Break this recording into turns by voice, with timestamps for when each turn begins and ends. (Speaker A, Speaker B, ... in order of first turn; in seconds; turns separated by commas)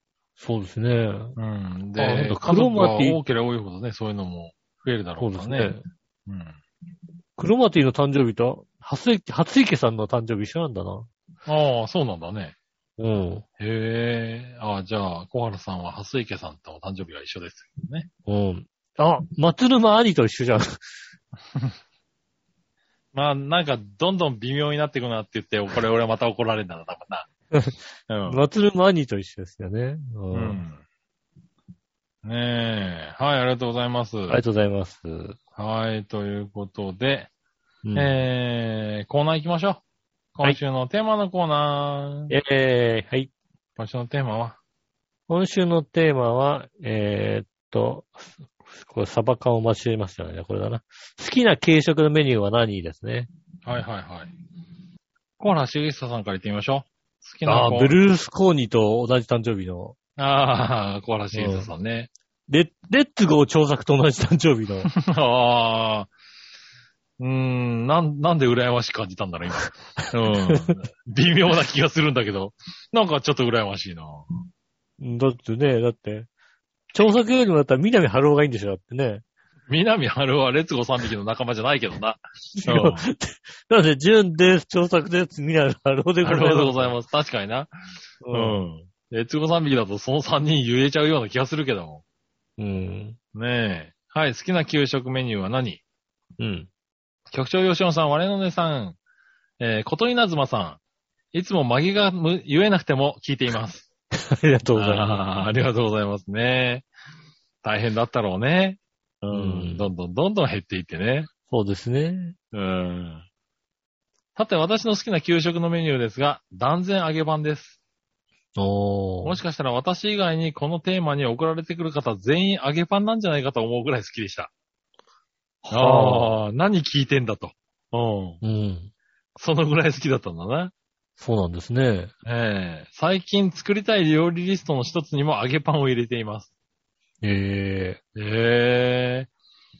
Speaker A: 0.4-1.4, Speaker B: 1.4-6.6, Speaker A: 2.0-3.2, Speaker A: 5.2-5.8, Speaker A: 7.4-11.1, Speaker B: 11.4-12.5, Speaker A: 13.0-13.4, Speaker B: 13.6-18.1, Speaker A: 18.3-20.8, Speaker B: 23.1-27.3, Speaker A: 27.5-30.6, Speaker B: 28.1-28.4, Speaker B: 30.3-30.8, Speaker B: 32.2-34.4, Speaker A: 34.3-35.4, Speaker B: 35.5-37.3, Speaker A: 37.8-38.2, Speaker B: 37.9-39.8, Speaker B: 40.3-42.3, Speaker A: 42.3-43.3, Speaker B: 43.8-44.6, Speaker A: 45.3-48.3, Speaker A: 48.8-53.3, Speaker B: 53.6-54.3, Speaker B: 55.4-58.0, Speaker A: 57.5-60.0, Speaker B: 60.2-62.1, Speaker A: 61.3-61.7, Speaker A: 62.5-64.9, Speaker B: 64.9-66.1, Speaker B: 67.2-74.2, Speaker A: 69.6-70.8, Speaker A: 75.0-76.3, Speaker A: 76.9-79.2, Speaker B: 79.7-83.0, Speaker A: 82.5-86.9, Speaker B: 86.2-87.7, Speaker A: 88.2-88.6, Speaker B: 88.3-92.0, Speaker A: 92.6-93.2, Speaker B: 93.3-95.8, Speaker A: 96.4-96.7, Speaker B: 97.3-99.0, Speaker B: 99.6-100.8, Speaker B: 101.3-103.9, Speaker A: 104.1-105.2, Speaker B: 104.7-106.9, Speaker B: 107.6-111.3, Speaker A: 109.3-109.9, Speaker A: 111.5-112.3, Speaker B: 112.5-113.2, Speaker B: 114.3-117.8, Speaker A: 118.5-119.4, Speaker B: 119.2-124.5, Speaker A: 125.7-126.4, Speaker B: 125.7-128.4, Speaker A: 128.4-128.9, Speaker B: 129.3-130.7, Speaker A: 131.2-132.1, Speaker B: 132.2-136.5, Speaker A: 137.2-138.0, Speaker B: 138.2-139.3